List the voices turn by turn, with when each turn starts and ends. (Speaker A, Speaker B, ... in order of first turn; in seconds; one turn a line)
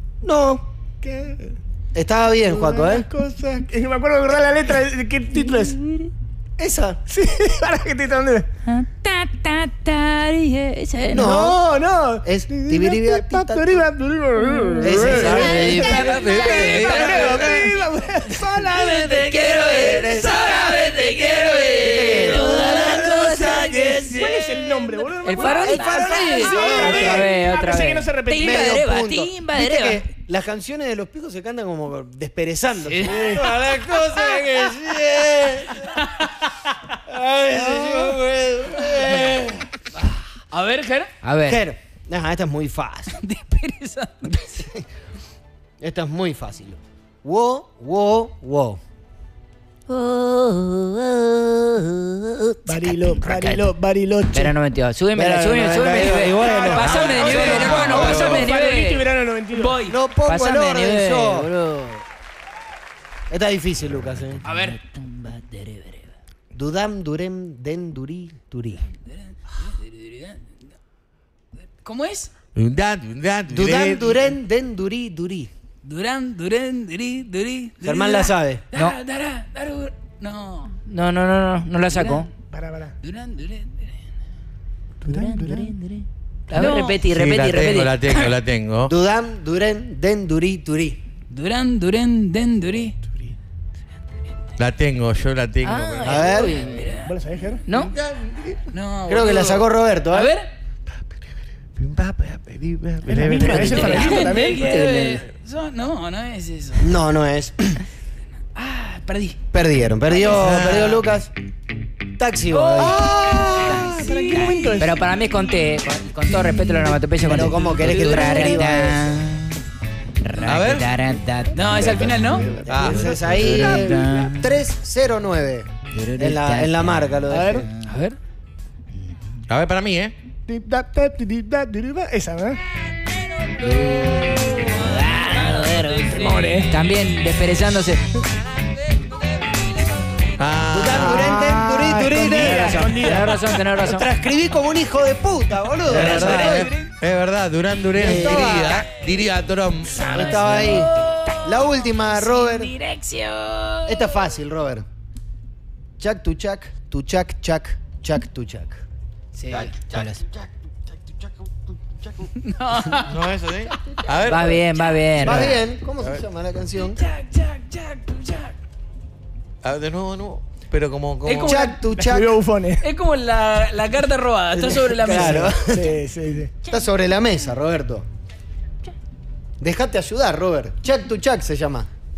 Speaker A: 0.2-0.7
Speaker B: 1.0-1.6
Speaker A: 1.9-3.1
Speaker B: 2.5-6.0
Speaker A: 6.6-7.0
Speaker B: 7.1-8.5
Speaker C: 8.6-11.4
Speaker A: 11.1-13.9
Speaker B: 11.2-19.2
Speaker C: 14.8-17.7
Speaker A: 14.8-15.8
Speaker D: 15.8-17.0
Speaker E: 16.0-17.7
Speaker E: 18.4-24.8
Speaker C: 19.1-24.2
Speaker A: 19.8-20.5
Speaker A: 21.8-23.1
Speaker B: 22.6-28.8
Speaker C: 25.2-30.1
Speaker A: 25.4-27.3
Speaker A: 28.4-33.5
Speaker B: 33.0-33.5
Speaker E: 33.1-35.8
Speaker A: 34.0-35.7
Speaker D: 35.8-36.4
Speaker E: 37.1-39.6
Speaker A: 37.5-39.5
Speaker D: 40.5-41.1
Speaker C: 41.2-41.6
Speaker A: 41.4-43.2
Speaker D: 43.1-44.7
Speaker A: 44.6-44.9
Speaker A: 45.8-48.8
Speaker C: 49.9-53.7
Speaker B: 52.7-54.5
Speaker C: 54.3-59.0
Speaker A: 55.1-58.5
Speaker B: 56.0-59.8
Speaker D: 56.6-58.1
Speaker E: 57.0-58.4
Speaker D: 59.5-60.0
Speaker A: 59.9-61.5
Speaker C: 60.3-62.0
Speaker A: 63.3-64.4
Speaker D: 64.5-64.8
Speaker C: 64.5-66.1
Speaker A: 66.5-68.8
Speaker D: 69.1-70.4
Speaker D: 71.8-72.3
Speaker E: 72.6-74.2
Speaker A: 73.5-75.5
Speaker D: 75.8-80.7
Speaker A: 77.8-78.6
Speaker C: 80.9-82.3
Speaker B: 82.5-83.0
Speaker D: 83.0-83.9
Speaker C: 85.1-88.0
Speaker B: 85.1-85.7
Speaker D: 86.5-87.0
Speaker E: 87.0-88.9
Speaker A: 88.9-91.0
Speaker D: 91.3-93.0
Speaker E: 94.6-96.2
Speaker C: 95.6-97.0
Speaker A: 96.0-96.6
Speaker D: 96.6-97.1
Speaker B: 97.0-97.6
Speaker C: 97.7-97.9
Speaker D: 98.7-100.5
Speaker A: 99.1-100.3
Speaker E: 101.8-104.1
Speaker A: 103.1-103.8
Speaker C: 103.1-105.2
Speaker B: 103.2-104.6
Speaker D: 103.6-106.9
Speaker A: 106.8-107.8
Speaker D: 108.6-109.4
Speaker A: 109.5-111.3
Speaker E: 110.3-111.0
Speaker A: 112.1-114.7
Speaker D: 112.5-113.0
Speaker C: 113.6-119.6
Speaker B: 113.8-115.0
Speaker A: 117.2-119.2
Speaker C: 120.2-124.5
Speaker E: 120.5-120.9
Speaker D: 121.5-122.5
Speaker B: 121.8-122.8
Speaker A: 122.2-127.7
Speaker E: 122.7-123.9
Speaker C: 125.9-127.1
Speaker B: 127.3-127.7
Speaker D: 127.9-128.2
Speaker E: 129.5-130.1
Speaker B: 130.5-132.6
Speaker C: 133.6-138.0
Speaker D: 134.8-136.7
Speaker B: 136.1-136.7
Speaker E: 140.4-141.5
Speaker A: 140.7-146.7
Speaker B: 141.0-143.3
Speaker C: 142.7-144.1
Speaker E: 145.9-150.2
Speaker D: 145.9-146.9
Speaker A: 147.9-148.9
Speaker D: 150.0-154.2
Speaker A: 150.1-150.9
Speaker C: 150.4-150.8
Speaker A: 151.4-152.7
Speaker A: 153.9-154.9
Speaker A: 156.0-158.8
Speaker C: 159.4-160.2
Speaker D: 159.5-159.7
Speaker E: 159.7-160.1
Speaker D: 162.4-163.1
Speaker E: 163.1-164.7
Speaker C: 164.3-165.6
Speaker A: 165.2-167.1
Speaker E: 165.2-165.5
Speaker D: 166.8-168.6
Speaker E: 169.6-171.6
Speaker D: 171.2-171.8
Speaker A: 171.3-172.4
Speaker B: 171.9-172.8
Speaker D: 172.8-175.6
Speaker A: 174.6-176.0
Speaker B: 175.1-176.5
Speaker A: 176.6-178.1
Speaker A: 179.6-181.9